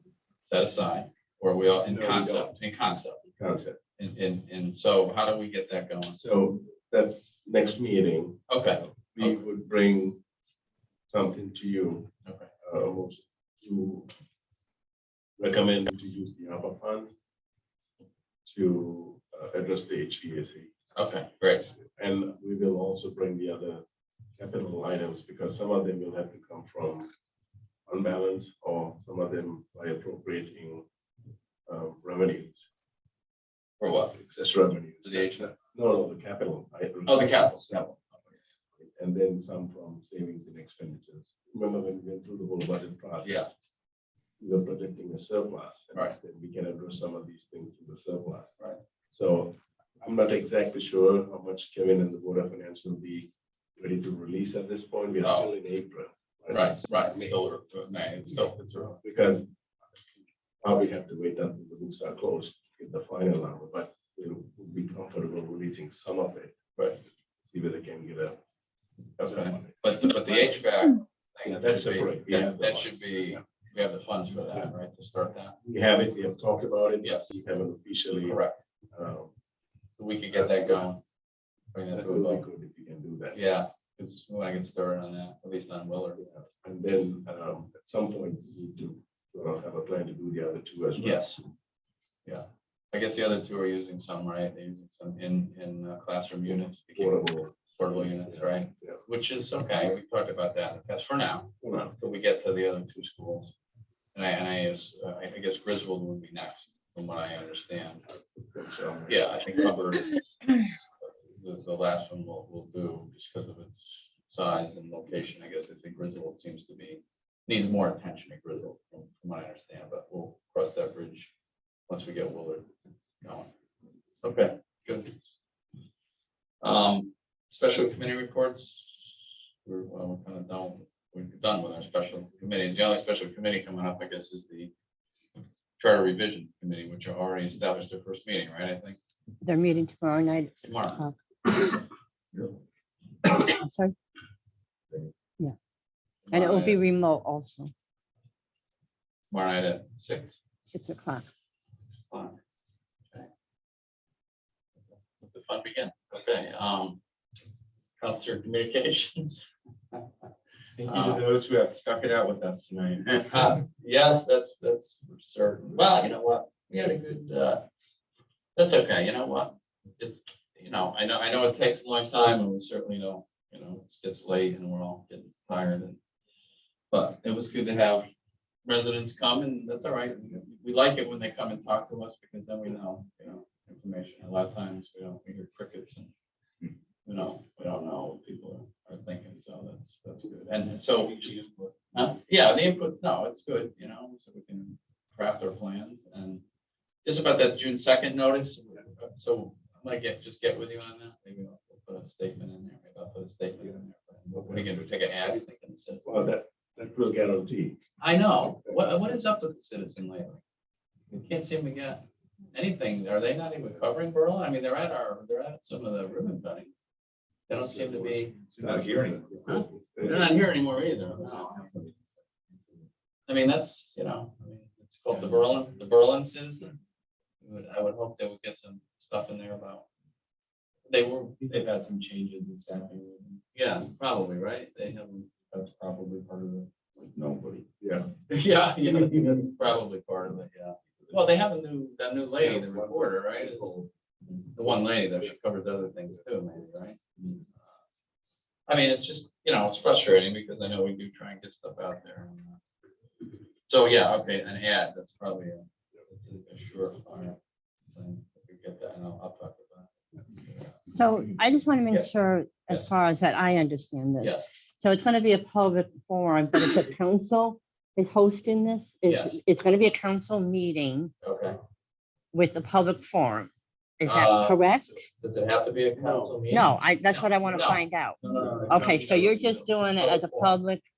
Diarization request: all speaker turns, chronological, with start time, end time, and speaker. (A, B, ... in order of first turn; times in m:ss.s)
0:00.5-0:03.2 A
0:01.8-0:02.6 B
0:03.4-0:03.8 B
0:04.0-0:06.2 A
0:06.1-0:10.2 B
0:08.5-0:09.4 A
0:11.1-0:12.1 B
0:12.2-0:12.5 A
0:12.6-0:14.1 B
0:15.4-0:17.1 B
0:18.4-0:20.7 B
0:20.9-0:21.7 A
0:22.0-0:23.8 B
0:24.4-0:27.1 B
0:27.9-0:30.8 B
0:31.6-0:32.6 B
0:33.8-0:34.2 A
0:34.1-0:38.0 B
0:35.0-0:35.5 A
0:37.1-0:38.0 A
0:38.8-0:43.4 B
0:43.2-0:43.5 A
0:44.4-0:48.5 B
0:49.1-0:57.3 B
0:55.2-0:55.5 A
0:56.5-0:59.0 A
0:59.0-0:59.5 B
1:00.6-1:06.8 B
1:07.4-1:08.4 B
1:09.2-1:15.6 A
1:09.2-1:09.7 B
1:11.4-1:13.4 B
1:15.6-1:18.4 B
1:17.0-1:17.3 A
1:18.2-1:18.6 A
1:18.9-1:19.3 B
1:20.0-1:21.0 A
1:20.3-1:20.8 B
1:21.7-1:22.4 A
1:21.9-1:23.4 B
1:23.3-1:26.3 A
1:26.2-1:31.2 B
1:31.0-1:31.4 A
1:32.2-1:43.5 A
1:36.4-1:39.0 B
1:41.6-1:41.9 B
1:44.1-1:48.0 A
1:48.5-1:49.2 B
1:49.1-1:50.2 A
1:51.0-2:01.3 A
2:01.9-2:02.7 A
2:03.2-2:03.5 A
2:04.2-2:05.3 A
2:06.6-2:14.7 A
2:15.8-2:19.0 A
2:19.4-2:21.7 C
2:20.6-2:21.0 A
2:23.3-2:23.9 C
2:26.3-2:26.8 A
2:26.3-2:27.7 C
2:29.3-2:30.4 A
2:30.6-2:31.3 C
2:32.1-2:32.4 A
2:35.2-2:37.0 A
2:38.0-2:40.0 A
2:40.8-2:43.5 D
2:40.8-2:41.2 A
2:43.3-2:47.6 A
2:48.6-2:56.0 A
2:56.9-2:58.0 A
2:58.6-3:06.1 A
3:07.0-3:11.3 A
3:11.2-3:11.6 D
3:11.9-3:16.4 A
3:17.0-3:26.3 A
3:24.3-3:24.8 B
3:26.0-3:27.8 B
3:28.0-3:30.4 A
3:28.5-3:29.0 B
3:31.1-3:32.0 A
3:32.5-3:36.7 A
3:37.5-3:38.4 A
3:37.7-3:40.5 B
3:38.6-3:39.6 D
3:39.4-3:41.7 A
3:41.5-3:41.9 D
3:43.3-3:46.8 A
3:47.4-3:49.8 A
3:50.9-3:51.6 A
3:51.4-3:53.4 D
3:53.5-3:55.3 A
3:55.5-3:57.7 D
3:57.8-3:58.1 B
3:58.3-4:03.7 A
3:58.9-3:59.3 D
4:02.4-4:03.9 B
4:04.5-4:07.8 A
4:08.7-4:12.6 A
4:13.7-4:20.8 A
4:20.9-4:31.1 C
4:24.2-4:24.4 A
4:29.0-4:29.4 A
4:31.2-4:31.6 A
4:32.3-4:35.1 C
4:34.0-4:34.6 A
4:35.2-4:38.5 A
4:36.0-4:36.6 D
4:36.5-4:40.8 C
4:38.2-4:39.6 D
4:40.0-4:40.6 A